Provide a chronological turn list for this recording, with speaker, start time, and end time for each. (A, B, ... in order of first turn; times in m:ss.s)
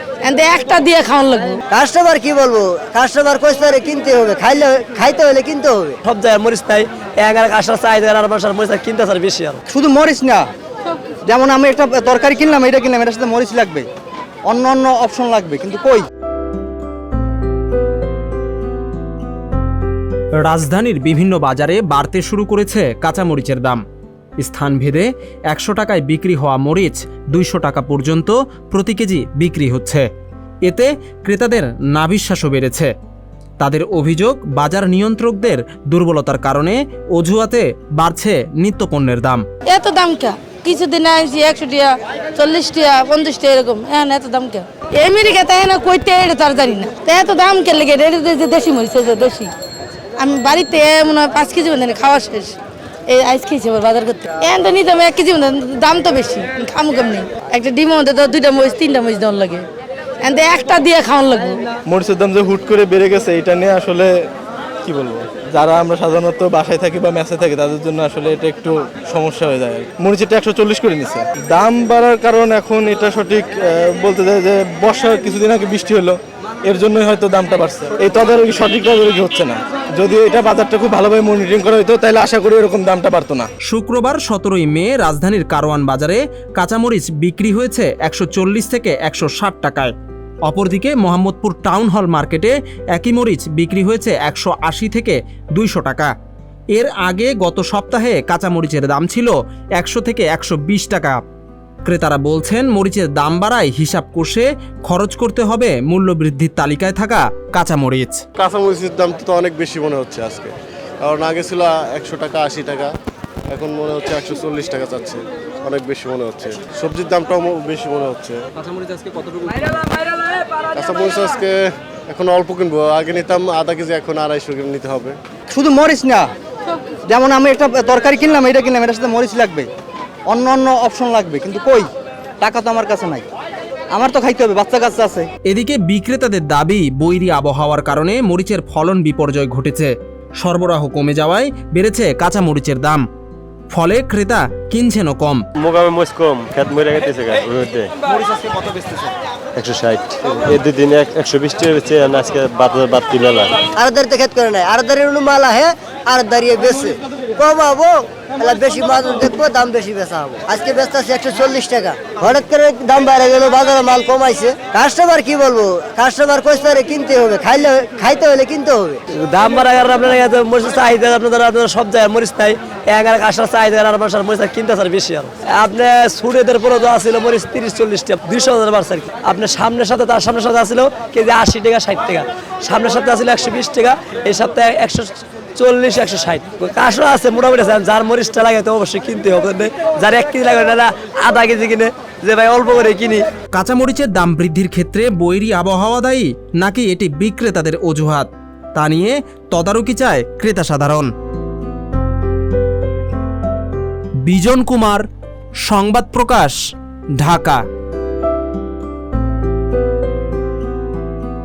0:00.2-0:01.6 A
0:01.7-0:06.0 B
0:06.0-0:09.6 C
0:09.7-0:10.5 D
0:11.3-0:13.9 D
0:14.5-0:16.1 D
0:20.4-0:23.8 E
0:24.4-0:30.1 E
0:30.7-0:32.9 E
0:33.6-0:39.4 E
0:39.7-0:49.5 A
0:50.2-0:52.6 A
0:53.1-0:59.7 A
1:00.2-1:01.6 A
1:01.9-1:04.2 F
1:04.8-1:23.5 F
1:23.6-1:29.9 E
1:30.5-1:36.1 E
1:36.8-1:41.2 E
1:41.8-1:48.2 E
1:48.4-1:52.9 G
1:53.5-1:58.4 G
2:00.7-2:05.2 G
2:05.5-2:06.3 D
2:07.1-2:09.7 D
2:10.3-2:11.9 D
2:12.4-2:13.2 D
2:13.9-2:15.3 D
2:15.5-2:23.0 E
2:23.7-2:25.4 E
2:25.6-2:28.8 H
2:29.6-2:33.6 H
2:33.7-2:49.0 B
2:49.2-3:13.2 C
3:13.5-3:21.1 E
3:24.3-3:25.1 E
3:25.6-3:26.6 E
3:27.2-3:27.6 E